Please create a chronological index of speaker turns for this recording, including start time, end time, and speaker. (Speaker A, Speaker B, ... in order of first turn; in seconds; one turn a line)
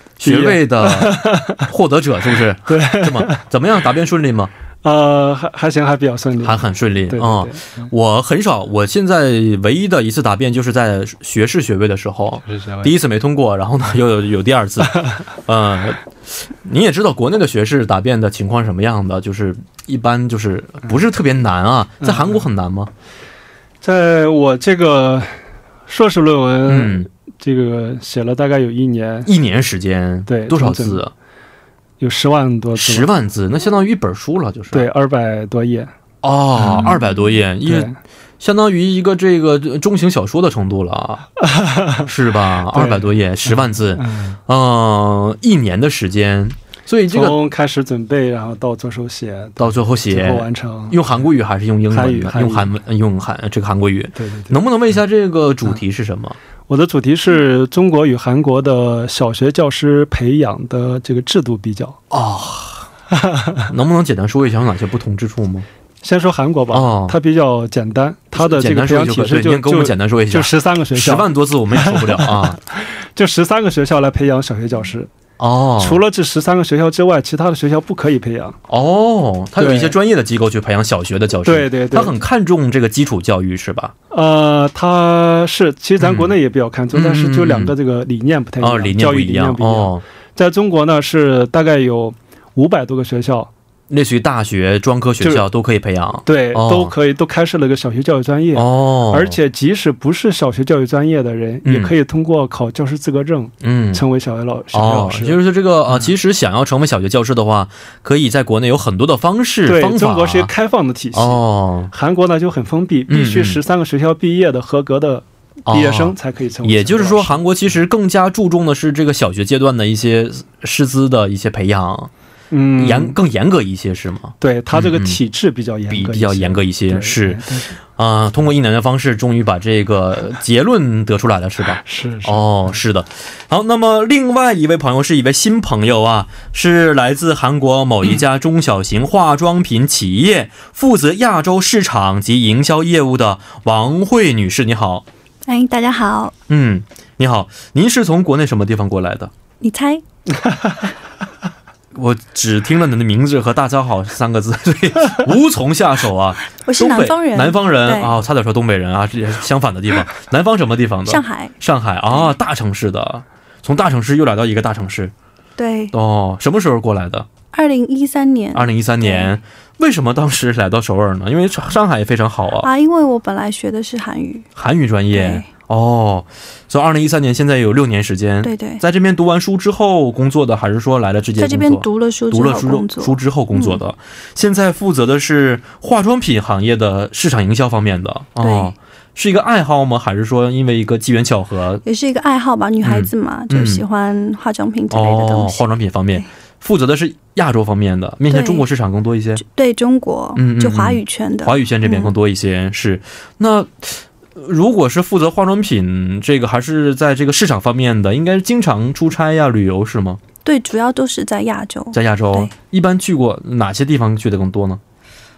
Speaker A: 0.2-4.5
Speaker B: 0.2-1.7
Speaker B: 2.7-3.4
Speaker B: 4.8-7.9
Speaker A: 6.4-16.0
Speaker B: 12.5-12.9
Speaker A: 16.6-22.9
Speaker B: 22.0-22.4
Speaker B: 23.8-25.3
Speaker B: 25.9-29.3
Speaker A: 26.7-27.1
Speaker A: 29.2-31.1
Speaker B: 30.2-31.0
Speaker B: 32.0-33.1
Speaker A: 32.8-34.9
Speaker B: 34.7-35.9
Speaker A: 36.2-37.9
Speaker B: 36.5-37.0
Speaker B: 37.7-38.0
Speaker A: 38.4-41.3
Speaker B: 41.4-42.1
Speaker A: 42.0-47.4
Speaker B: 42.7-44.4
Speaker B: 47.1-51.0
Speaker A: 49.6-56.4
Speaker B: 51.9-52.7
Speaker B: 54.2-54.6
Speaker B: 56.7-62.0
Speaker A: 62.1-62.9
Speaker B: 63.1-63.7
Speaker A: 63.7-65.7
Speaker B: 66.0-75.1
Speaker A: 66.7-67.2
Speaker A: 68.3-72.6
Speaker A: 75.4-76.0
Speaker B: 75.8-78.6
Speaker A: 78.7-83.9
Speaker B: 79.6-79.9
Speaker B: 81.4-82.1
Speaker B: 84.1-93.5
Speaker A: 86.0-86.3
Speaker A: 86.9-87.7
Speaker A: 88.6-90.0
Speaker A: 93.9-96.9
Speaker B: 96.2-105.4
Speaker A: 98.5-99.4
Speaker A: 101.6-101.9
Speaker A: 103.6-104.0
Speaker A: 104.7-110.5
Speaker B: 109.6-111.4
Speaker A: 111.1-111.9
Speaker B: 111.9-117.4
Speaker A: 113.1-113.6
Speaker A: 115.7-122.1
Speaker B: 122.5-123.2
Speaker A: 122.8-125.2
Speaker B: 124.4-127.8
Speaker A: 125.9-127.4
Speaker A: 128.0-145.0
Speaker B: 131.8-132.8
Speaker C: 145.4-146.3
Speaker A: 146.5-149.3
Speaker C: 149.6-150.0
Speaker A: 151.9-165.1
Speaker C: 156.5-158.1
Speaker C: 161.1-161.5
Speaker C: 165.6-165.9
Speaker A: 165.9-167.3
Speaker C: 167.5-169.3
Speaker A: 168.5-172.7
Speaker C: 172.6-174.5
Speaker A: 174.6-191.8
Speaker C: 175.1-175.5
Speaker C: 178.4-178.8
Speaker C: 181.4-183.8
Speaker C: 188.4-188.7
Speaker C: 191.8-196.2
Speaker A: 192.8-193.8
Speaker A: 194.9-199.4
Speaker C: 198.3-198.6
Speaker C: 199.4-202.1
Speaker A: 200.4-210.2
Speaker C: 210.4-212.5
Speaker A: 211.9-214.8